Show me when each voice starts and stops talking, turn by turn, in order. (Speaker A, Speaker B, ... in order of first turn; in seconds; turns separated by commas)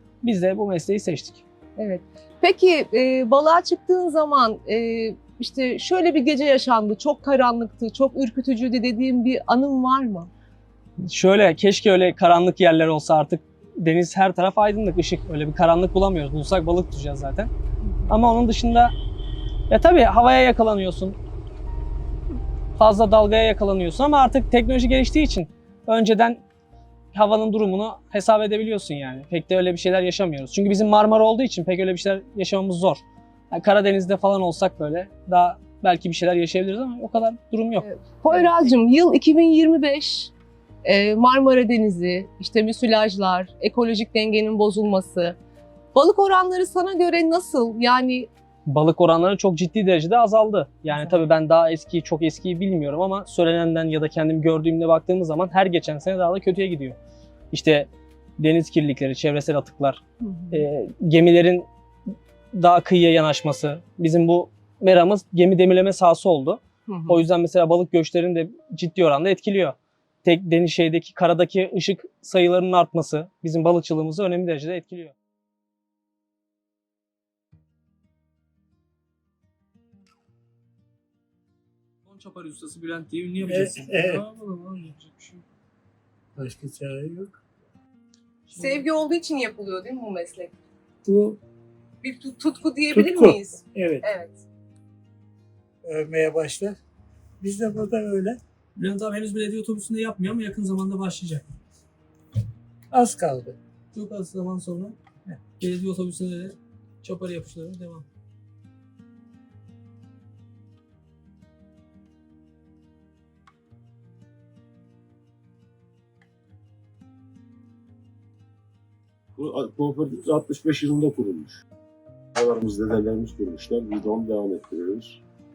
Speaker A: 0.2-1.4, Speaker B: 1.8-10.3, Speaker A: 11.0-17.5, Speaker A: 18.1-18.9, Speaker A: 19.7-21.2, Speaker A: 22.8-26.4, Speaker A: 27.1-38.5, Speaker B: 37.8-40.3, Speaker B: 40.8-45.4, Speaker B: 45.9-48.3, Speaker A: 48.7-57.0, Speaker A: 57.5-60.0, Speaker B: 60.2-60.6, Speaker A: 60.5-61.7, Speaker A: 62.5-75.2, Speaker B: 66.9-67.2, Speaker A: 82.0-85.4, Speaker C: 86.4-87.3, Speaker A: 88.5-88.8, Speaker B: 88.5-90.5, Speaker C: 91.0-91.4, Speaker B: 92.0-94.4, Speaker C: 92.9-94.0, Speaker C: 95.8-96.8, Speaker C: 97.4-98.4, Speaker A: 98.8-101.5, Speaker C: 102.9-103.6, Speaker A: 103.9-105.0, Speaker A: 105.6-108.1, Speaker D: 119.4-121.6, Speaker D: 122.4-125.2